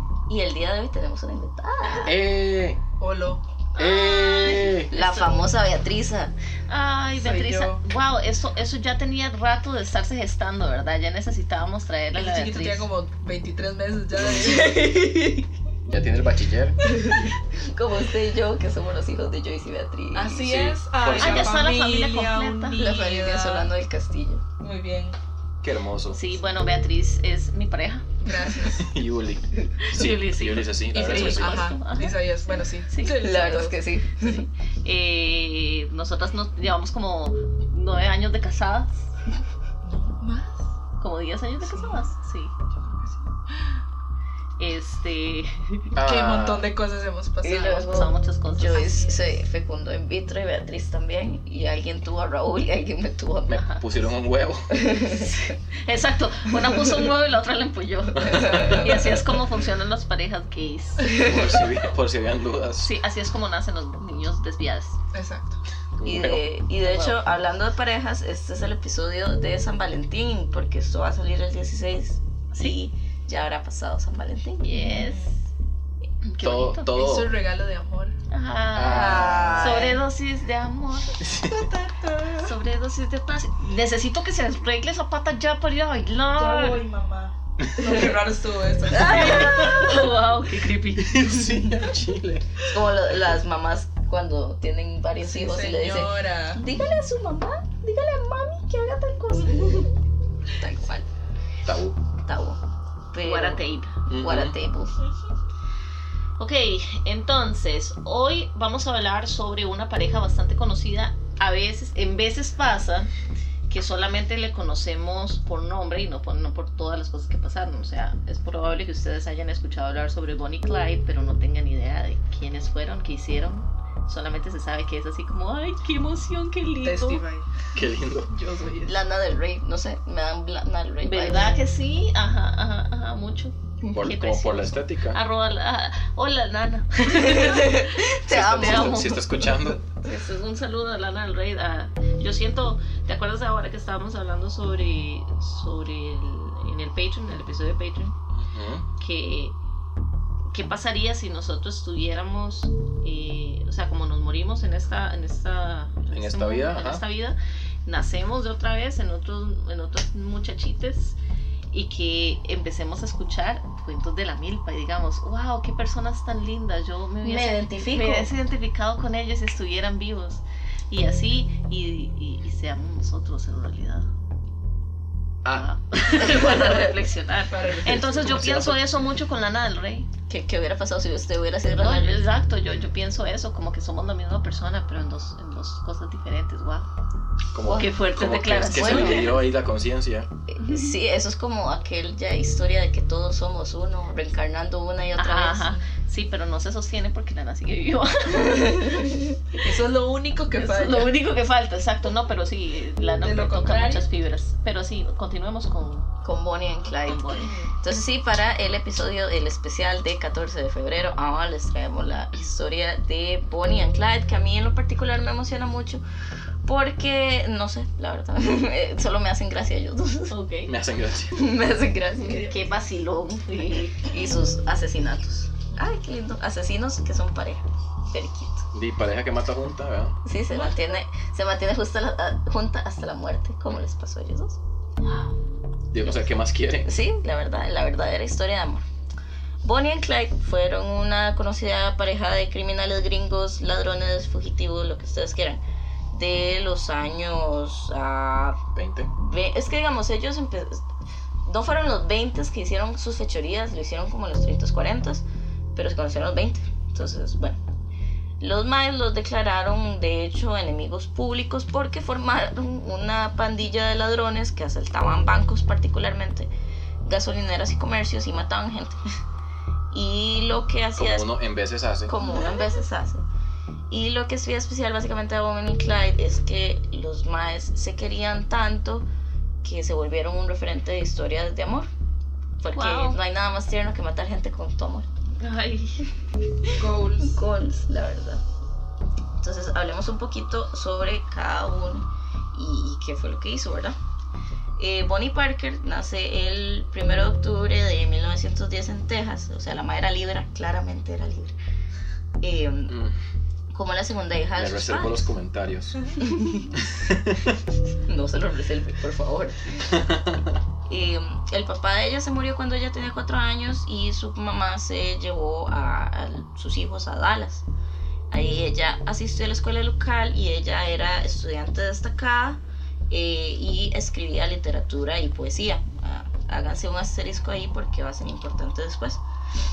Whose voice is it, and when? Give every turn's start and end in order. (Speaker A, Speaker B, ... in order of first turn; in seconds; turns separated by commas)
Speaker A: 0.3-2.1, Speaker B: 2.0-2.8, Speaker C: 3.0-3.4, Speaker D: 3.8-5.5, Speaker B: 3.8-4.9, Speaker A: 4.9-6.3, Speaker D: 6.7-12.9, Speaker C: 7.2-7.8, Speaker C: 12.2-15.5, Speaker B: 14.2-14.7, Speaker B: 15.9-16.8, Speaker A: 16.8-20.5, Speaker C: 16.9-17.3, Speaker C: 20.1-23.7, Speaker B: 20.4-21.7, Speaker D: 21.1-22.9, Speaker A: 22.8-24.4, Speaker C: 24.6-25.2, Speaker B: 25.6-26.2, Speaker D: 26.1-28.2, Speaker C: 28.2-28.9, Speaker B: 28.7-31.7, Speaker D: 29.8-33.4, Speaker C: 30.9-33.8, Speaker A: 33.0-34.5, Speaker D: 34.2-39.1, Speaker C: 39.8-40.7, Speaker D: 41.0-42.5, Speaker C: 41.6-42.1, Speaker C: 42.7-43.8, Speaker D: 44.6-45.9, Speaker B: 46.0-46.7, Speaker C: 46.0-48.0, Speaker A: 47.4-53.6, Speaker D: 47.8-48.9, Speaker C: 48.6-49.3, Speaker B: 53.5-54.8, Speaker A: 54.7-55.6, Speaker D: 55.3-61.3, Speaker B: 58.2-58.9, Speaker A: 58.4-58.8, Speaker A: 61.0-61.6, Speaker B: 61.2-62.9, Speaker D: 62.8-65.0, Speaker C: 65.1-65.6, Speaker B: 66.0-66.5, Speaker A: 66.0-74.7, Speaker D: 66.8-67.3, Speaker D: 72.5-72.8, Speaker D: 74.6-75.4, Speaker C: 74.8-75.3, Speaker D: 76.2-76.9, Speaker B: 76.4-77.3, Speaker C: 76.9-78.2, Speaker D: 78.3-81.2, Speaker B: 78.7-79.9, Speaker A: 78.8-80.0, Speaker B: 81.2-81.5, Speaker C: 81.3-82.5, Speaker D: 82.3-86.9, Speaker C: 86.4-89.7, Speaker A: 88.9-90.0, Speaker D: 88.9-91.3, Speaker B: 89.5-89.8, Speaker B: 91.0-92.5, Speaker A: 92.7-100.0, Speaker C: 95.2-96.6, Speaker A: 100.6-101.1, Speaker B: 101.7-102.0, Speaker A: 102.2-102.6, Speaker A: 103.1-105.0, Speaker D: 103.2-104.0, Speaker B: 104.1-104.6, Speaker D: 106.4-113.1, Speaker D: 113.7-127.2, Speaker C: 126.8-127.6, Speaker B: 127.7-128.3, Speaker C: 128.3-129.0, Speaker A: 128.8-131.6, Speaker D: 131.0-139.3, Speaker B: 133.9-135.2, Speaker A: 137.1-139.1, Speaker B: 138.3-139.8, Speaker D: 140.0-148.1, Speaker B: 148.3-148.9, Speaker D: 149.0-149.6, Speaker D: 150.5-161.2, Speaker B: 156.1-157.0, Speaker D: 161.7-174.1, Speaker A: 167.2-168.3, Speaker D: 175.5-180.1, Speaker A: 176.2-176.9, Speaker C: 177.5-178.4, Speaker B: 177.9-178.9, Speaker A: 180.3-182.2, Speaker D: 181.7-186.9, Speaker B: 187.5-190.3, Speaker D: 187.6-189.4, Speaker A: 188.7-189.4, Speaker A: 190.5-195.7, Speaker D: 195.2-199.1, Speaker A: 198.3-199.4, Speaker C: 199.6-201.2, Speaker D: 200.5-206.1, Speaker C: 203.2-204.1, Speaker A: 206.2-216.0, Speaker D: 207.0-207.6, Speaker C: 207.2-207.7, Speaker A: 216.7-220.4, Speaker D: 220.3-220.7, Speaker B: 220.7-221.4, Speaker A: 221.3-222.5, Speaker D: 222.2-224.1, Speaker C: 222.3-222.6, Speaker A: 224.0-228.7, Speaker B: 228.7-230.2, Speaker A: 230.2-234.6, Speaker B: 235.9-236.9, Speaker A: 236.8-238.8, Speaker A: 239.6-248.6, Speaker B: 248.7-249.1, Speaker A: 249.2-250.8, Speaker A: 251.5-257.6, Speaker A: 258.4-266.5, Speaker A: 267.1-269.0, Speaker A: 269.9-271.3, Speaker B: 271.0-272.1, Speaker A: 272.1-273.2, Speaker C: 272.2-272.5, Speaker A: 273.9-279.1, Speaker A: 279.6-281.9, Speaker A: 282.6-285.1, Speaker D: 282.7-283.2, Speaker D: 285.4-286.1, Speaker C: 286.7-287.4, Speaker A: 287.2-288.4, Speaker A: 289.4-294.0, Speaker A: 294.8-301.6, Speaker A: 302.4-303.0, Speaker B: 302.9-303.1, Speaker A: 303.7-305.3, Speaker B: 304.6-306.1, Speaker A: 306.2-306.9, Speaker B: 306.9-307.4, Speaker A: 308.1-309.8, Speaker B: 309.9-310.6, Speaker A: 310.9-317.6, Speaker A: 318.3-329.2